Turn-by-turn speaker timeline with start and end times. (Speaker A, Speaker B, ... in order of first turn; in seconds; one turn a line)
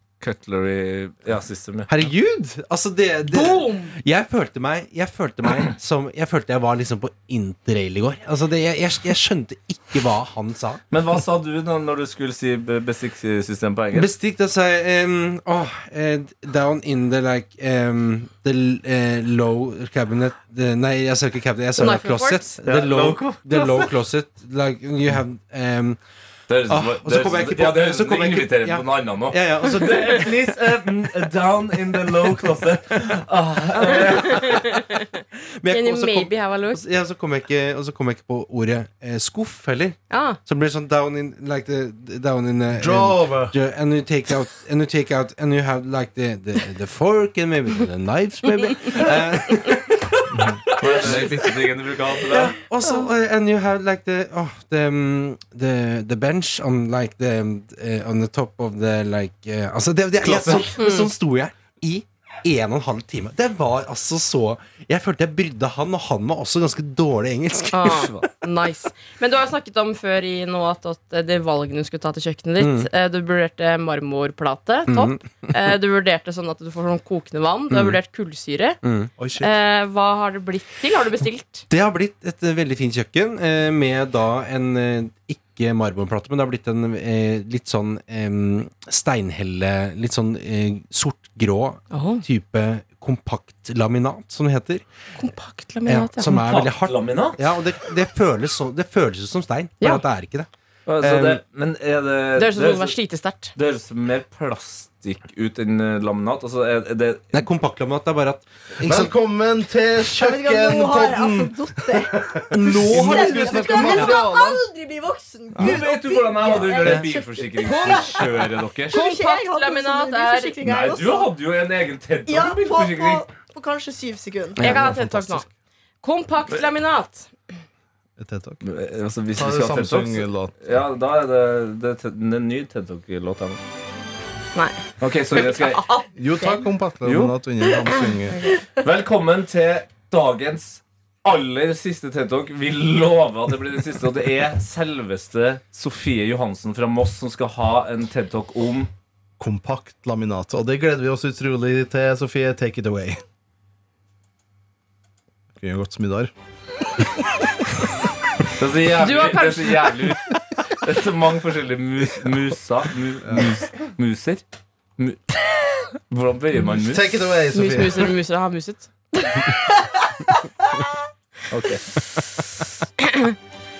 Speaker A: 0.2-2.0
Speaker B: 1.9-10.8
Speaker C: 3.3-3.9
Speaker A: 10.9-14.1
Speaker B: 13.9-26.0
Speaker C: 21.8-22.5
Speaker A: 22.6-23.8
Speaker A: 26.5-34.7
Speaker B: 26.7-30.2
Speaker C: 33.9-36.8
Speaker B: 35.3-51.5
Speaker C: 40.1-40.4
Speaker D: 42.7-43.5
Speaker D: 50.3-50.6
Speaker A: 50.8-52.5
Speaker B: 52.3-68.3
Speaker A: 60.2-60.7
Speaker C: 60.8-61.1
Speaker C: 67.7-78.8
Speaker B: 72.6-72.9
Speaker B: 74.9-75.5
Speaker B: 77.7-78.0
Speaker B: 78.8-79.1
Speaker D: 79.2-79.5
Speaker C: 79.4-81.6
Speaker B: 81.7-94.8
Speaker C: 91.9-92.2
Speaker C: 95.2-96.4
Speaker B: 95.8-100.5
Speaker A: 96.3-97.4
Speaker A: 100.8-103.0
Speaker B: 101.0-101.4
Speaker C: 102.3-103.5
Speaker A: 103.5-107.2
Speaker B: 107.3-109.2
Speaker D: 108.8-114.6
Speaker E: 110.1-112.1
Speaker B: 112.5-114.2
Speaker E: 112.9-121.3
Speaker D: 115.5-115.9
Speaker A: 115.6-119.0
Speaker B: 116.7-117.1
Speaker C: 117.6-118.2
Speaker C: 118.9-120.6
Speaker A: 120.6-123.2
Speaker E: 122.3-124.6
Speaker B: 124.6-124.9
Speaker C: 124.6-125.5
Speaker D: 124.6-125.5
Speaker C: 126.0-127.3
Speaker D: 128.2-128.6
Speaker A: 128.6-133.6
Speaker D: 129.3-130.5
Speaker C: 134.5-136.7
Speaker A: 135.0-135.8
Speaker D: 136.2-138.5
Speaker A: 137.0-137.3
Speaker C: 138.3-138.6
Speaker A: 138.8-148.9
Speaker D: 149.4-153.2
Speaker D: 155.6-156.3
Speaker A: 158.6-164.4
Speaker C: 158.9-160.2
Speaker D: 163.2-163.6
Speaker A: 165.0-167.1
Speaker D: 166.7-168.1
Speaker C: 167.5-168.9
Speaker E: 169.3-170.0
Speaker A: 171.5-171.8
Speaker C: 173.0-173.3